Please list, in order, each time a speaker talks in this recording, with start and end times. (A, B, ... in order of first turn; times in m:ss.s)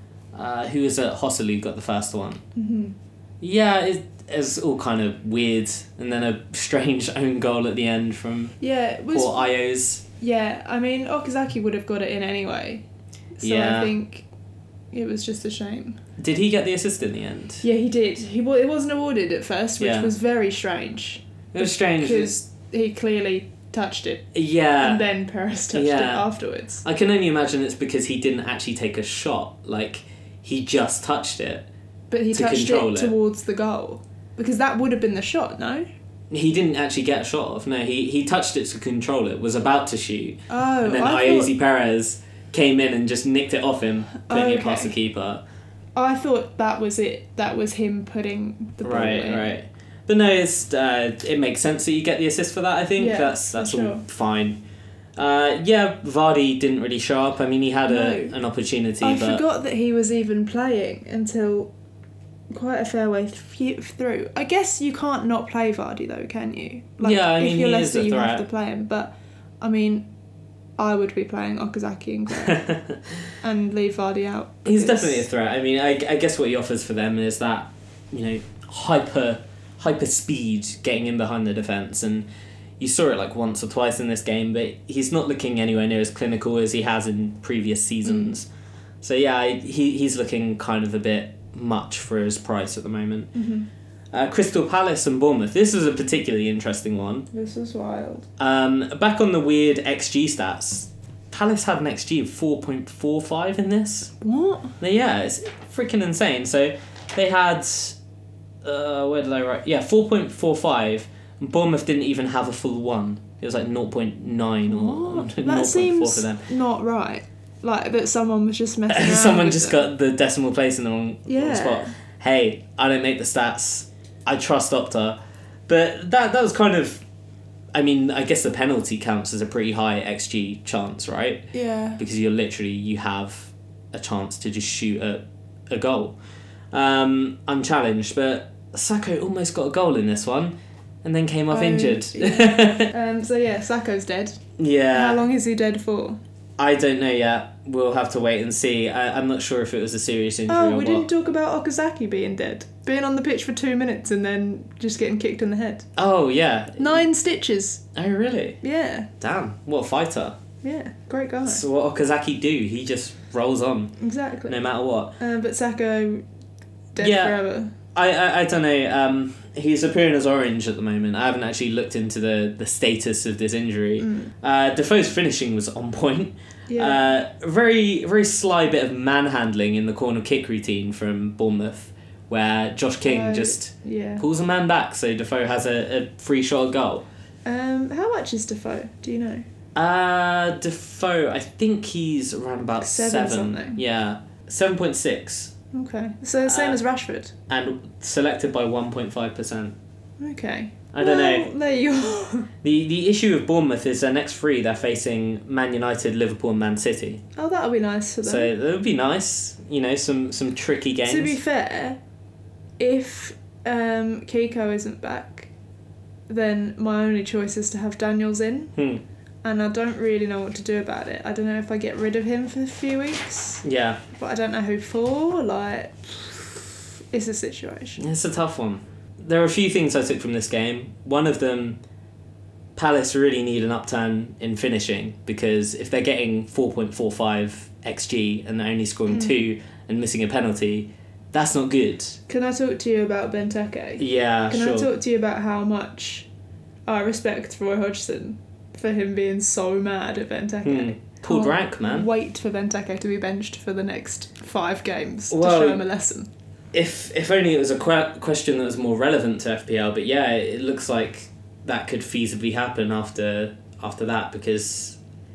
0:00.3-0:02.4 A
0:02.6-0:03.0 B
0:03.4-0:08.6 A
0:08.6-0:09.5 B
0:09.1-0:10.0 A
0:10.2-0:12.8 B
0:13.4-0:14.3 B
0:13.4-0:13.9 A
0:14.9-0:16.0 B
0:16.2-0:17.6 A
0:17.6-0:24.3 B
0:19.8-0:20.1 A
0:21.5-0:22.4 A
0:24.3-0:25.0 A
0:24.8-0:26.8 B
0:25.7-0:26.3 A
0:26.8-0:31.7 A
0:32.1-0:35.8 B
0:32.3-0:33.1 A
0:36.3-0:45.4 A
0:40.5-0:41.5 B
0:44.3-0:44.9 B
0:46.0-0:49.5 B
0:48.8-0:54.6 A
0:53.0-0:54.0 B
0:55.2-0:59.4 A
0:57.9-0:58.4 B
0:59.0-1:01.7 B
1:02.5-1:10.1 B
1:07.0-1:08.4 A
1:10.8-1:12.6 B
1:12.4-1:13.0 A
1:13.4-1:15.3 B
1:14.6-1:22.3 A
1:22.8-1:28.5 A
1:29.0-1:33.3 A
1:33.3-1:33.7 B
1:34.1-1:37.3 A
1:37.3-1:38.3 B
1:38.4-1:44.1 A
1:44.2-1:44.8 B
1:44.8-1:48.0 A
1:48.6-1:56.5 A
1:54.7-1:59.9 B
1:58.9-2:07.0 A
2:01.3-2:02.0 B
2:07.7-2:11.4 A
2:11.5-2:12.0 B
2:12.0-2:16.2 A
2:16.7-2:22.9 A
2:21.5-2:24.4 B
2:24.6-2:25.2 A
2:24.9-2:26.2 B
2:26.6-2:31.1 A
2:30.5-2:35.9 B
2:36.0-2:37.0 A
2:36.8-2:37.8 B
2:38.0-2:38.6 A
2:38.6-2:39.1 B
2:39.2-2:40.4 A
2:40.6-2:41.6 B
2:41.4-2:44.0 A
2:44.0-2:44.6 B
2:44.5-2:45.2 A
2:45.2-2:46.2 B
2:47.0-2:47.7 B
2:47.0-2:47.4 A
2:47.9-3:07.1 A
2:54.0-2:54.3 B
2:56.7-2:57.1 B
3:03.0-3:04.2 B
3:07.4-3:09.4 B
3:09.8-3:15.6 A
3:12.8-3:13.8 B
3:15.7-3:17.4 B
3:16.4-3:16.8 A
3:17.5-3:19.8 A
3:20.2-3:22.5 B
3:20.9-3:21.5 A
3:22.6-3:27.2 A
3:27.4-3:28.5 B
3:28.2-3:31.4 A
3:31.0-3:32.0 B
3:32.8-3:35.5 B
3:36.3-3:38.7 B
3:38.8-3:39.0 A
3:39.4-3:48.0 B
3:43.6-3:44.0 A
3:48.0-3:51.8 A
3:52.8-4:02.2 A
3:59.1-3:59.4 B
4:02.3-4:06.3 B
4:04.0-4:04.9 A
4:06.9-4:16.3 B
4:10.6-4:12.1 A
4:15.3-4:15.8 A
4:16.7-4:25.0 A